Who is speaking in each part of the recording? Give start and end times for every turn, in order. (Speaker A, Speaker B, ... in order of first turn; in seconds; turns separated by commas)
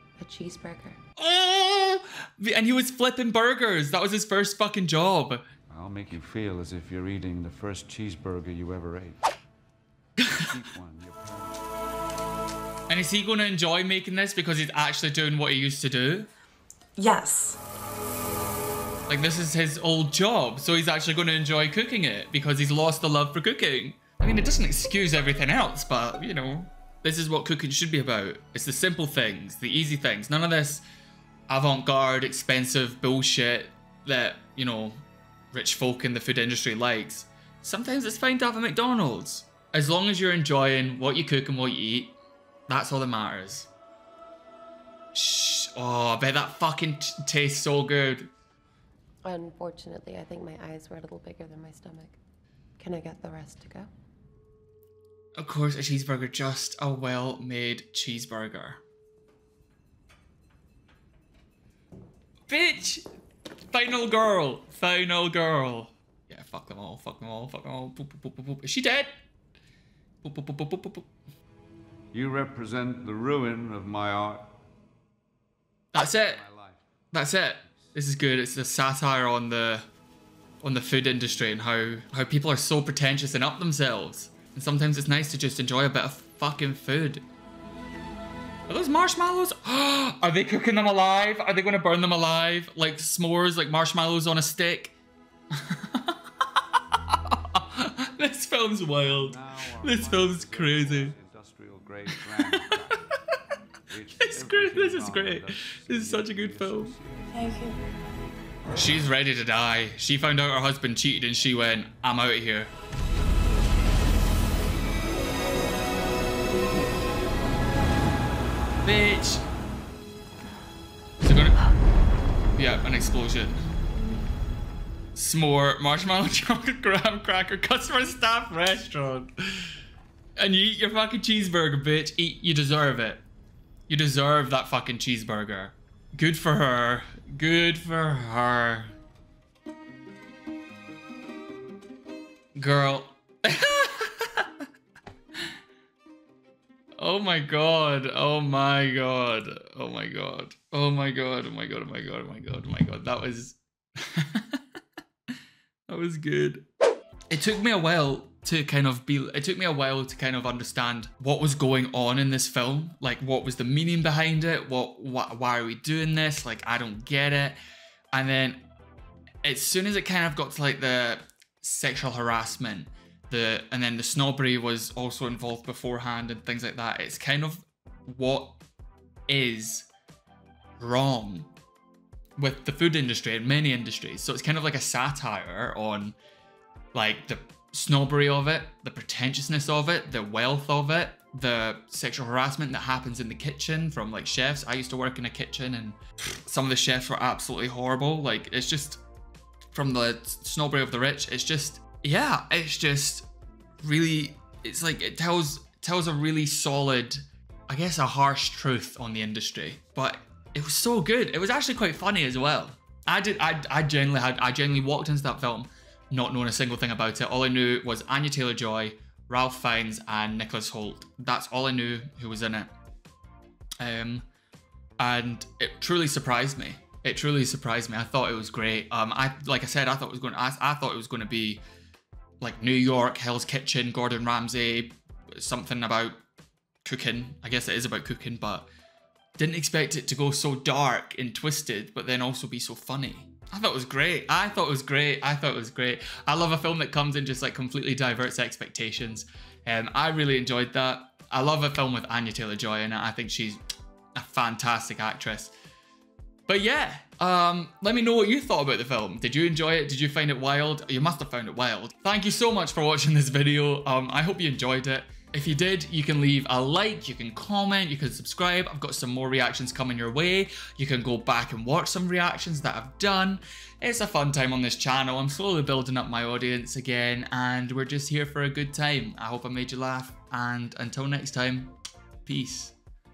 Speaker A: 0.2-1.0, Speaker B: 1.2-5.5, Speaker C: 5.7-9.2, Speaker B: 10.2-10.5, Speaker C: 10.3-11.6, Speaker B: 12.9-16.3, Speaker B: 19.1-30.8, Speaker B: 31.5-42.2, Speaker B: 42.7-43.7, Speaker B: 45.1-48.3, Speaker A: 49.2-52.2, Speaker A: 52.8-53.9, Speaker B: 55.4-58.8, Speaker B: 62.5-63.1, Speaker B: 63.7-69.1, Speaker B: 70.2-71.1, Speaker C: 72.1-74.6, Speaker B: 75.9-76.4, Speaker C: 76.0-76.8, Speaker B: 77.1-79.9, Speaker C: 77.6-77.9, Speaker B: 80.6-87.2, Speaker B: 88.7-94.9, Speaker B: 95.5-101.1, Speaker C: 98.9-103.1, Speaker B: 102.5-102.9, Speaker C: 103.9-107.5, Speaker B: 104.2-106.9, Speaker B: 108.7-112.7, Speaker B: 118.8-119.4, Speaker B: 121.2-121.6, Speaker B: 122.5-123.7, Speaker B: 125.1-129.7, Speaker B: 130.4-133.2, Speaker B: 133.9-138.9, Speaker B: 142.6-144.6, Speaker B: 147.0-154.6, Speaker B: 155.9-156.7, Speaker B: 157.3-167.6, Speaker B: 168.1-168.7, Speaker B: 169.4-178.6, Speaker B: 179.3-179.9, Speaker B: 180.8-181.5, Speaker B: 182.4-186.2, Speaker B: 186.9-199.0, Speaker B: 199.7-203.3, Speaker B: 203.8-222.7, Speaker B: 223.8-224.2, Speaker B: 225.0-231.6, Speaker B: 232.4-236.2, Speaker B: 236.8-238.7, Speaker B: 239.4-253.6, Speaker B: 254.1-255.5, Speaker B: 256.5-281.7, Speaker B: 282.3-282.7